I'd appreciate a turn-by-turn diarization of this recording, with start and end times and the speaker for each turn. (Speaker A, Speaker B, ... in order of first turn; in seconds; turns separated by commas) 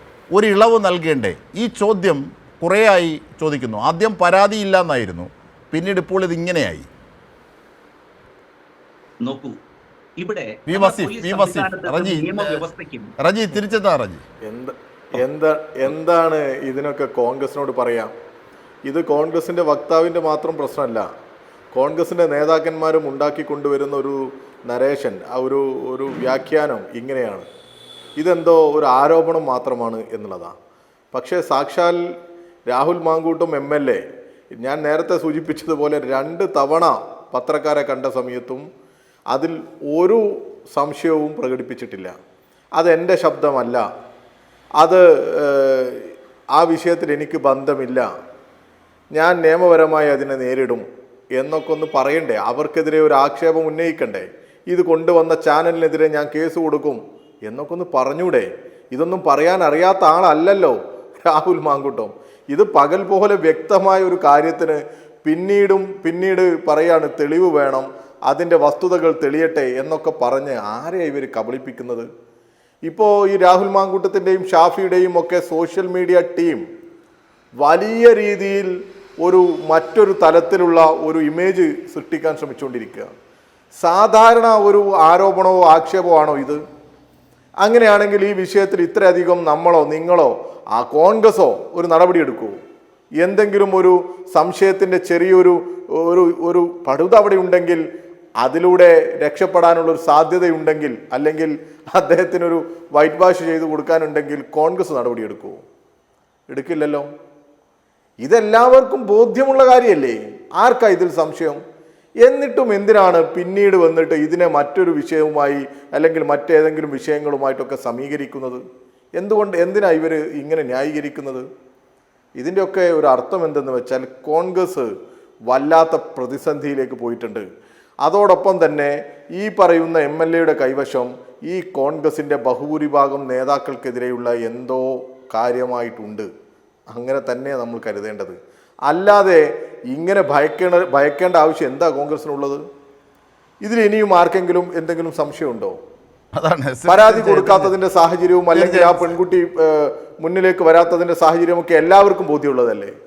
Speaker A: 0.3-6.9, Speaker B: 9.2-9.6, Speaker B: 10.2-13.1, Speaker A: 10.7-12.6, Speaker A: 13.2-14.2, Speaker C: 14.4-18.1, Speaker C: 18.9-21.1, Speaker C: 21.7-27.4, Speaker C: 28.2-30.5, Speaker C: 31.1-32.0, Speaker C: 32.7-34.0, Speaker C: 34.6-38.6, Speaker C: 39.3-42.1, Speaker C: 42.8-43.8, Speaker C: 44.8-48.1, Speaker C: 49.1-50.8, Speaker C: 51.4-72.1, Speaker C: 72.8-76.6, Speaker C: 77.6-83.1, Speaker C: 83.8-86.6, Speaker C: 87.6-92.6, Speaker C: 93.2-97.8, Speaker C: 98.4-105.6, Speaker C: 106.5-107.1, Speaker C: 108.2-111.6, Speaker C: 112.2-118.6, Speaker C: 119.2-121.5, Speaker C: 122.4-124.9, Speaker C: 125.5-127.4, Speaker C: 128.0-136.3, Speaker C: 136.9-138.3, Speaker C: 138.9-142.6, Speaker C: 143.6-145.8, Speaker A: 146.3-147.7, Speaker C: 146.8-152.9, Speaker A: 148.5-149.1